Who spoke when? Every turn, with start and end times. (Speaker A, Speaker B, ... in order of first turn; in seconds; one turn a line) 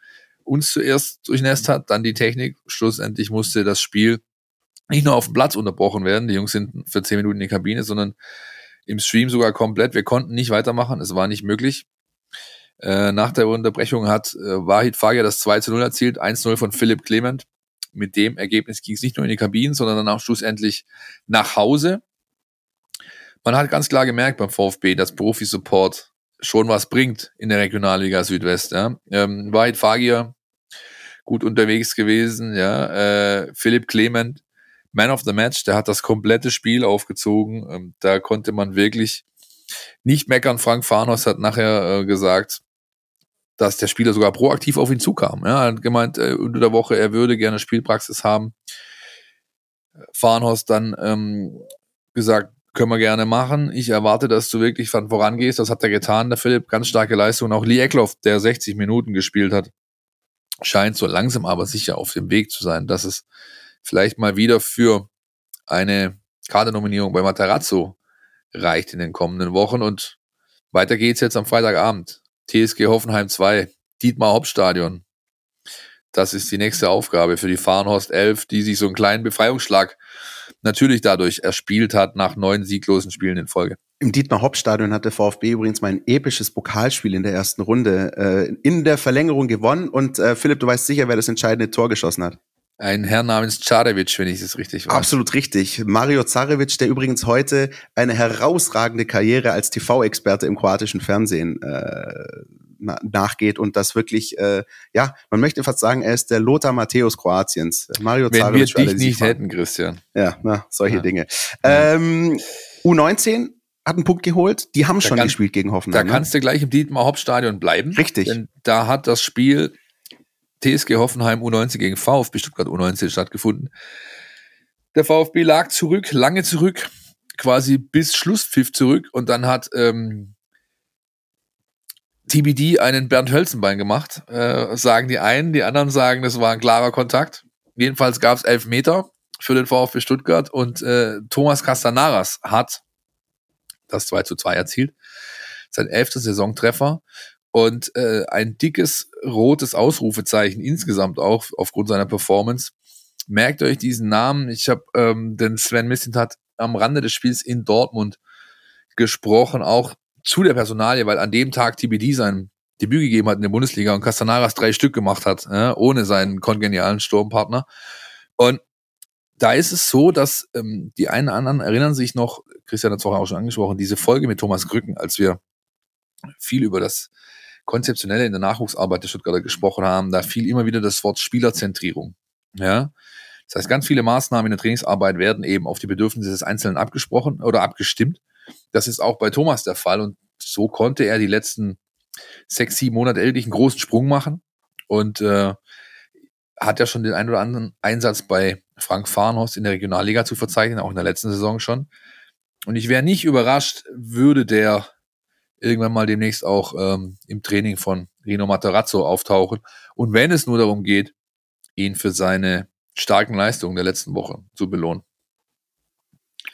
Speaker A: 0.5-4.2
Speaker A: 4.9-8.2
Speaker A: 8.9-11.8
Speaker A: 12.8-22.0
Speaker A: 23.4-30.3
Speaker A: 31.3-34.4
Speaker A: 34.9-39.2
Speaker A: 40.0-42.6
Speaker A: 43.6-48.5
Speaker A: 50.1-51.6
Speaker A: 52.1-59.7
Speaker A: 60.6-63.2
Speaker A: 63.8-65.1
Speaker A: 65.7-68.0
Speaker A: 68.5-70.2
Speaker A: 70.7-75.0
Speaker A: 76.1-80.0
Speaker A: 80.6-83.8
Speaker B: 84.0-92.4
Speaker A: 92.8-95.2
Speaker B: 94.9-109.4
Speaker A: 108.3-110.0
Speaker B: 110.2-116.2
Speaker A: 115.0-115.4
Speaker A: 115.9-119.7
Speaker B: 117.9-118.4
Speaker A: 120.6-123.7
Speaker A: 124.9-130.3
Speaker A: 132.3-142.8
Speaker A: 143.9-144.9
Speaker A: 145.7-147.0
Speaker A: 147.5-152.7
Speaker A: 153.3-158.2
Speaker A: 159.0-167.7
Speaker A: 169.4-175.4
Speaker A: 176.4-177.1
Speaker A: 177.7-182.9
Speaker A: 183.5-188.2
Speaker A: 188.7-191.8
Speaker A: 192.5-195.6
Speaker A: 196.6-201.9
Speaker A: 202.7-204.9
Speaker A: 205.6-211.1
Speaker A: 211.8-215.0